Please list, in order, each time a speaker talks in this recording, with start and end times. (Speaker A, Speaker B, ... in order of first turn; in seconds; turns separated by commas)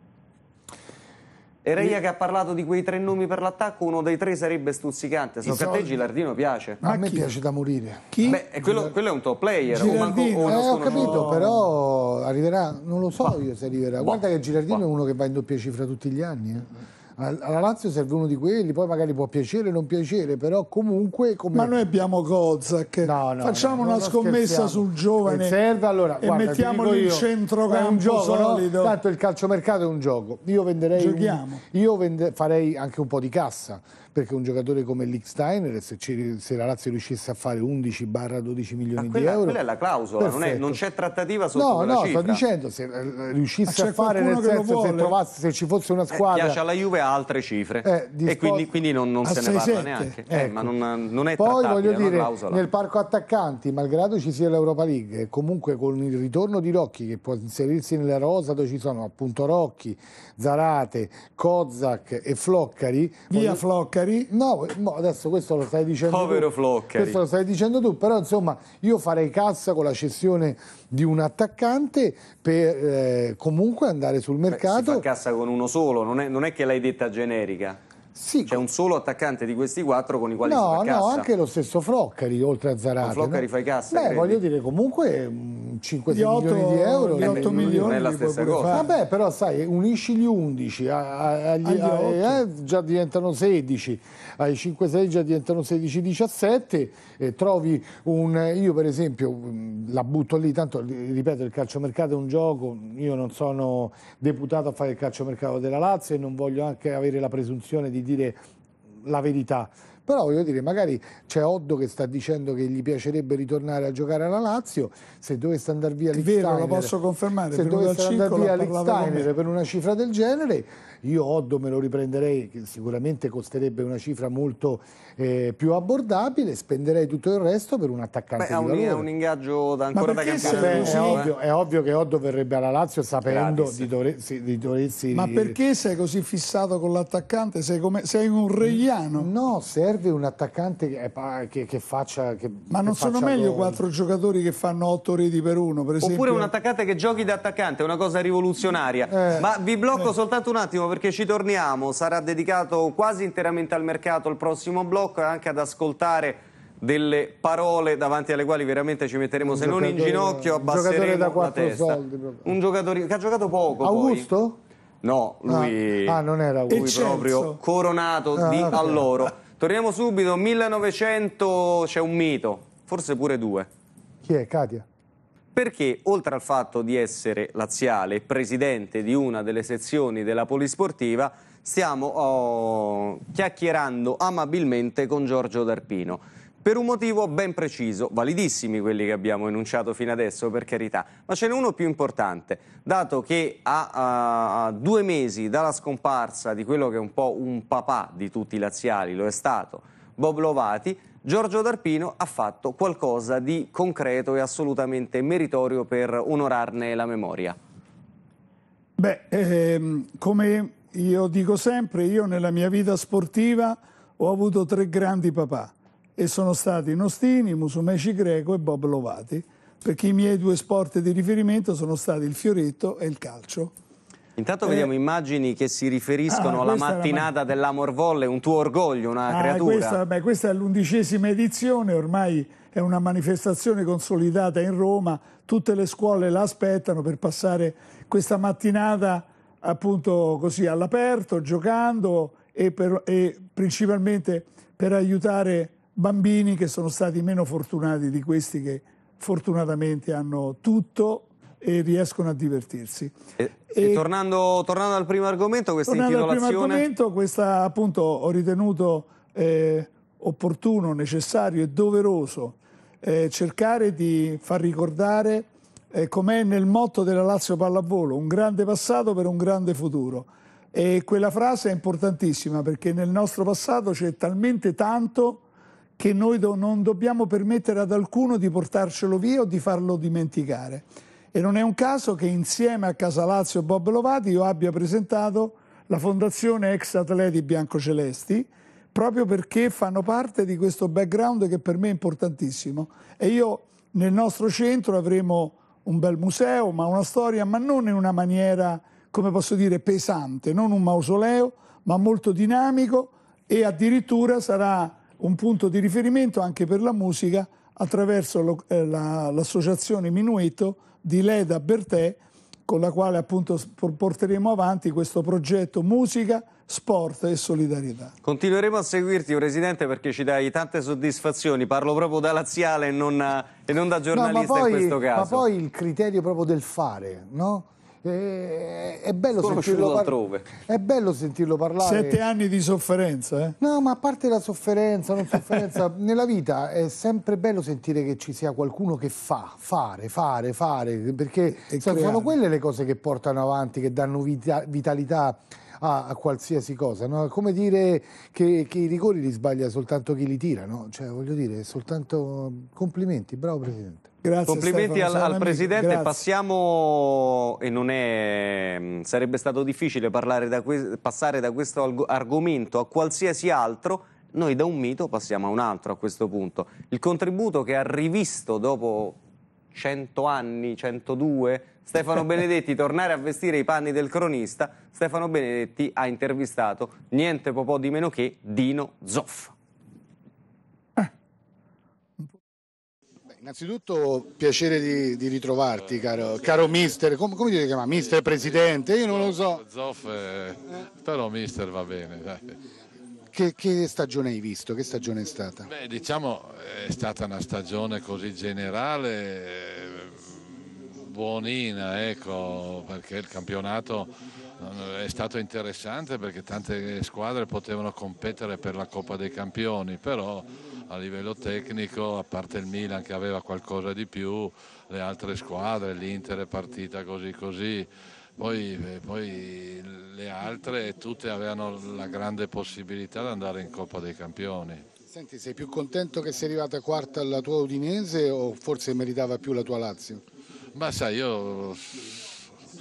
Speaker A: 1.6-6.8, Speaker B: 5.4-6.0, Speaker C: 6.8-7.3, Speaker B: 6.8-8.9, Speaker C: 8.1-8.4, Speaker A: 8.2-11.4, Speaker C: 9.7-11.6, Speaker B: 10.4-21.7, Speaker A: 14.0-14.8, Speaker C: 21.5-25.6, Speaker B: 23.0-39.6, Speaker C: 26.2-28.9, Speaker C: 30.9-31.6, Speaker A: 39.0-42.4, Speaker B: 40.2-40.8, Speaker B: 41.5-46.6, Speaker C: 43.7-45.1, Speaker A: 46.1-52.6, Speaker B: 47.8-48.7, Speaker C: 49.2-50.2, Speaker B: 50.3-50.7, Speaker B: 51.4-63.6, Speaker C: 63.3-64.3, Speaker B: 64.3-75.0, Speaker A: 66.0-67.2, Speaker A: 74.5-77.8, Speaker B: 78.1-78.6, Speaker A: 78.5-81.3, Speaker B: 80.4-88.0, Speaker A: 83.0-84.4, Speaker C: 86.1-88.9, Speaker A: 87.2-88.9, Speaker B: 88.7-108.4, Speaker C: 91.6-92.4, Speaker B: 109.0-116.9, Speaker C: 116.1-119.3, Speaker B: 117.5-129.1, Speaker A: 128.4-131.3, Speaker C: 129.9-131.3, Speaker B: 130.4-135.6, Speaker A: 133.2-133.9, Speaker C: 135.1-139.3, Speaker B: 138.6-143.8, Speaker C: 142.7-146.5, Speaker A: 146.0-164.3, Speaker B: 149.1-149.5, Speaker B: 159.4-162.5, Speaker B: 163.8-164.6, Speaker A: 165.0-166.2, Speaker B: 165.5-167.1, Speaker C: 166.7-167.6, Speaker A: 166.7-173.7, Speaker B: 168.4-169.1, Speaker B: 174.2-174.8, Speaker A: 175.5-207.6, Speaker C: 209.0-223.7, Speaker A: 224.3-230.0, Speaker C: 224.6-224.9, Speaker C: 226.3-227.3, Speaker C: 229.3-253.2, Speaker A: 253.4-256.9, Speaker C: 253.7-254.0, Speaker C: 255.8-275.4, Speaker C: 276.0-318.1, Speaker A: 318.2-325.4, Speaker B: 324.1-332.2, Speaker A: 329.4-330.4, Speaker C: 331.8-333.5, Speaker B: 333.6-354.1, Speaker C: 341.7-342.3, Speaker C: 354.2-356.2, Speaker A: 354.5-369.2, Speaker A: 369.7-379.5, Speaker B: 383.4-389.6, Speaker D: 385.8-386.9, Speaker D: 387.9-392.6, Speaker B: 393.3-395.7, Speaker D: 395.6-400.5, Speaker D: 401.1-424.8, Speaker B: 425.1-430.2, Speaker D: 430.7-432.4